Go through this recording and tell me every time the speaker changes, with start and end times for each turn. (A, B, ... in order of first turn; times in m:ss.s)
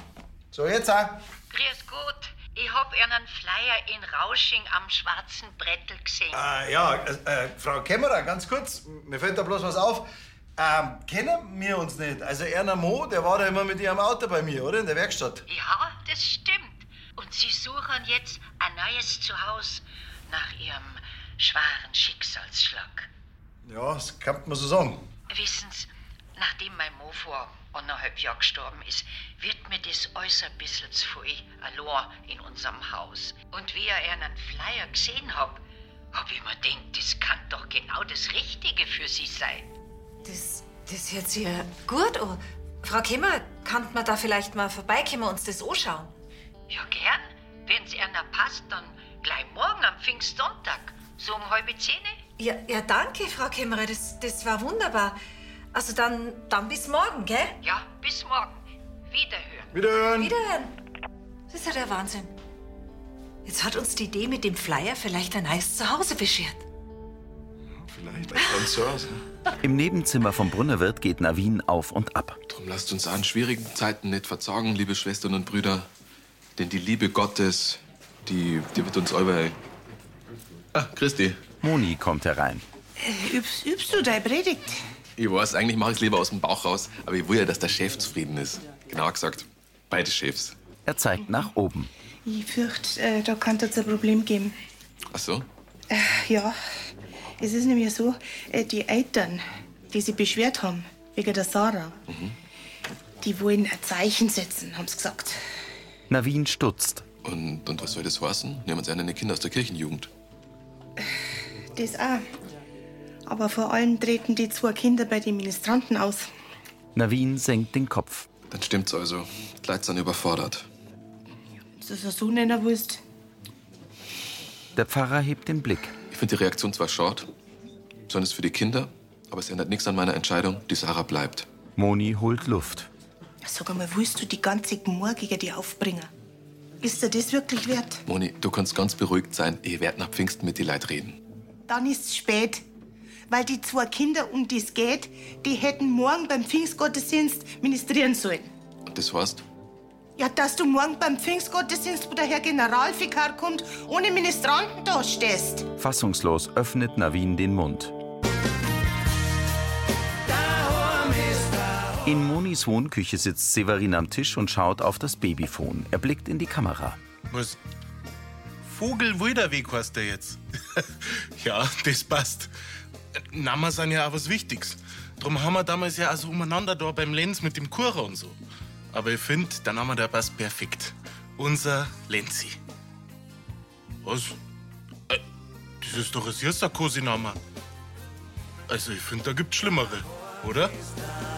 0:00.5-0:01.2 A
0:01.5-0:06.4 B
0:06.3-0:15.4 A
0:15.5-0:23.1 B
0:23.6-0:25.1 A
0:25.3-0:35.6 B
0:36.1-0:39.7 B
0:40.2-0:46.1 C
0:46.7-0:52.2 B
0:52.4-0:55.2 C
0:55.7-0:57.6 C
0:57.6-0:59.8 B
0:59.7-1:00.3 A
1:00.2-1:00.8 C
1:01.5-1:02.3 C
1:03.4-1:06.6 C
1:07.7-1:09.2 A
1:09.6-1:12.4 D
1:12.5-1:15.9 E
1:16.6-1:19.6 E
1:20.7-1:21.4 E
1:21.6-1:22.6 D
1:23.0-1:24.8 F
1:25.2-1:30.6 E
1:30.9-1:31.9 D
1:32.2-1:34.6 F
1:35.1-1:35.5 E
1:35.9-1:36.6 F
1:37.4-1:42.0 F
1:42.1-1:42.4 E
1:43.2-1:45.4 F
1:46.1-1:47.0 D
1:47.2-1:50.1 E
1:51.8-1:52.3 F
1:53.3-1:56.3 F
1:56.9-1:58.3 D
1:58.5-2:00.7 E
2:01.8-2:03.0 F
2:04.8-2:06.0 D
2:06.1-2:07.3 E
2:08.1-2:11.5 E
2:11.8-2:12.9 D
2:13.4-2:16.1 F
2:16.8-2:18.0 F
2:18.1-2:21.2 E
2:21.7-2:22.6 F
2:23.3-2:28.5 F
2:28.9-2:29.4 E
2:30.2-2:35.7 F
2:35.8-2:37.9 D
2:42.0-2:47.0 D
2:47.3-2:47.6 G
2:48.6-2:52.5 G
2:53.3-2:58.4 G
2:58.9-3:02.6 G
3:04.0-3:04.4 G
3:05.8-3:07.4 G
3:08.7-3:10.8 G